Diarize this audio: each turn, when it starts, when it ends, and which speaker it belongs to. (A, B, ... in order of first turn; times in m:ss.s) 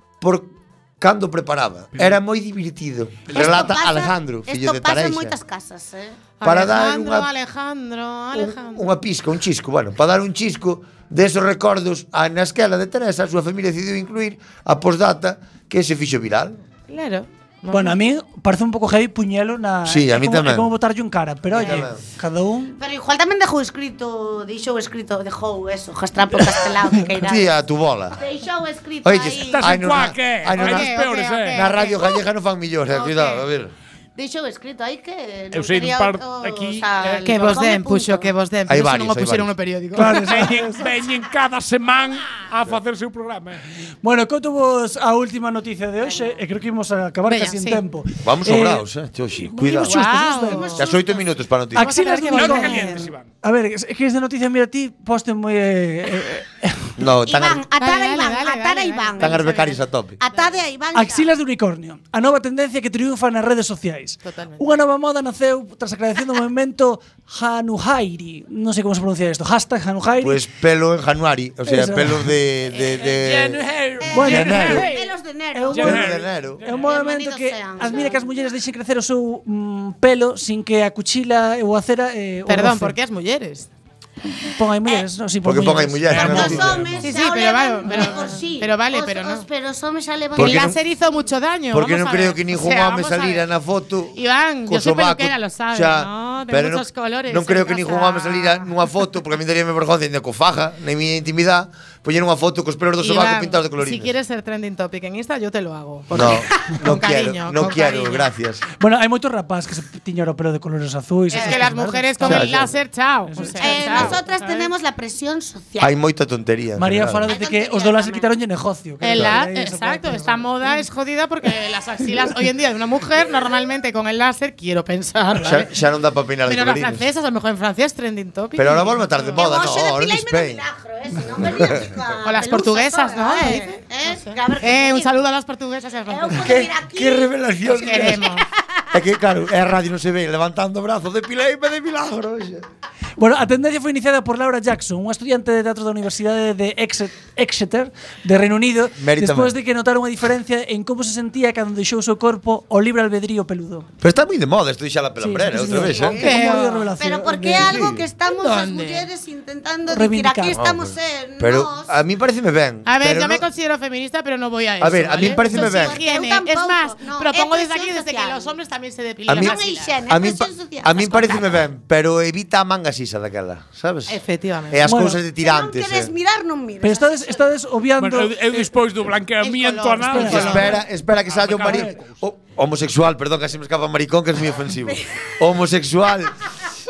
0:00.2-0:05.3 A
0:03.3-0:03.6 B
0:03.3-0:06.2 C
0:06.4-0:08.8 D
0:06.4-0:07.3 A
0:08.3-0:16.6 A
0:16.9-0:18.0 D
0:17.7-0:22.7 E
0:19.8-0:20.7 A
0:21.5-0:22.0 A
0:22.8-0:27.5 C
0:27.2-0:28.2 A
0:28.2-0:29.8 C
0:29.0-0:31.0 A
0:29.4-0:31.7 B
0:30.5-0:32.2 D
0:31.5-0:33.7 A
0:32.9-0:33.4 D
0:34.1-0:38.3 C
0:35.5-0:37.3 B
0:37.2-0:40.3 D
0:38.7-0:39.5 A
0:39.9-0:40.9 E
0:40.0-0:43.6 B
0:44.0-0:48.8 E
0:47.3-0:47.8 D
0:48.2-0:50.0 A
0:49.4-0:50.8 E
0:49.8-0:50.9 D
0:50.5-0:51.2 C
0:50.8-0:51.9 A
0:51.7-0:57.0 E
0:51.7-0:53.0 D
0:52.3-0:53.2 B
0:57.0-0:57.6 A
0:57.2-0:59.5 C
0:57.8-1:00.6 D
0:59.2-1:00.2 A
1:00.2-1:01.3 C
1:00.9-1:10.4 E
1:04.2-1:04.6 D
1:10.2-1:13.7 A
1:11.6-1:12.3 E
1:12.7-1:13.2 C
1:13.0-1:15.1 B
1:14.0-1:18.3 C
1:14.1-1:14.8 E
1:14.2-1:14.9 A
1:15.5-1:23.0 E
1:15.7-1:16.8 B
1:15.8-1:16.6 A
1:22.5-1:23.7 D
1:24.5-1:26.7 E
1:25.4-1:27.0 A
1:26.1-1:27.0 B
1:26.2-1:30.7 C
1:27.0-1:29.4 D
1:30.3-1:30.8 A
1:30.3-1:33.4 D
1:31.7-1:44.1 A
1:34.1-1:38.7 D
1:43.0-1:48.3 D
1:46.1-1:48.6 A
1:48.8-1:52.7 E
1:51.3-1:54.7 D
1:51.3-1:51.7 C
1:52.2-1:52.7 A
1:53.3-1:54.2 E
1:53.6-1:55.9 C
1:55.8-1:57.3 A
1:56.8-2:00.8 E
1:57.3-1:58.3 C
1:59.0-2:05.7 D
2:05.4-2:07.0 A
2:06.4-2:09.4 D
2:08.6-2:10.6 A
2:09.3-2:15.2 C
2:11.4-2:11.9 A
2:12.2-2:16.7 D
2:16.1-2:18.4 C
2:16.3-2:18.4 A
2:17.7-2:18.4 D
2:18.9-2:22.6 A
2:23.2-2:33.9 E
2:29.0-2:29.6 A
2:34.0-2:36.3 A
2:35.2-2:37.9 E
2:35.8-2:41.9 C
2:36.1-2:36.9 D
2:37.5-2:38.0 A
2:38.2-2:39.1 D
2:39.9-2:40.6 E
2:40.5-2:43.4 A
2:42.8-2:50.0 D
2:44.8-2:46.0 A
2:45.2-2:48.5 C
2:49.2-2:54.2 A
2:49.3-2:51.6 C
2:54.1-2:54.8 D
2:54.7-2:56.1 A
2:54.8-2:55.2 E
2:55.4-2:57.4 C
2:56.8-2:58.6 E
2:58.0-3:02.2 B
2:59.4-3:00.6 D
3:00.0-3:00.8 E
3:00.2-3:06.3 A
3:01.7-3:01.9 E
3:04.9-3:05.3 C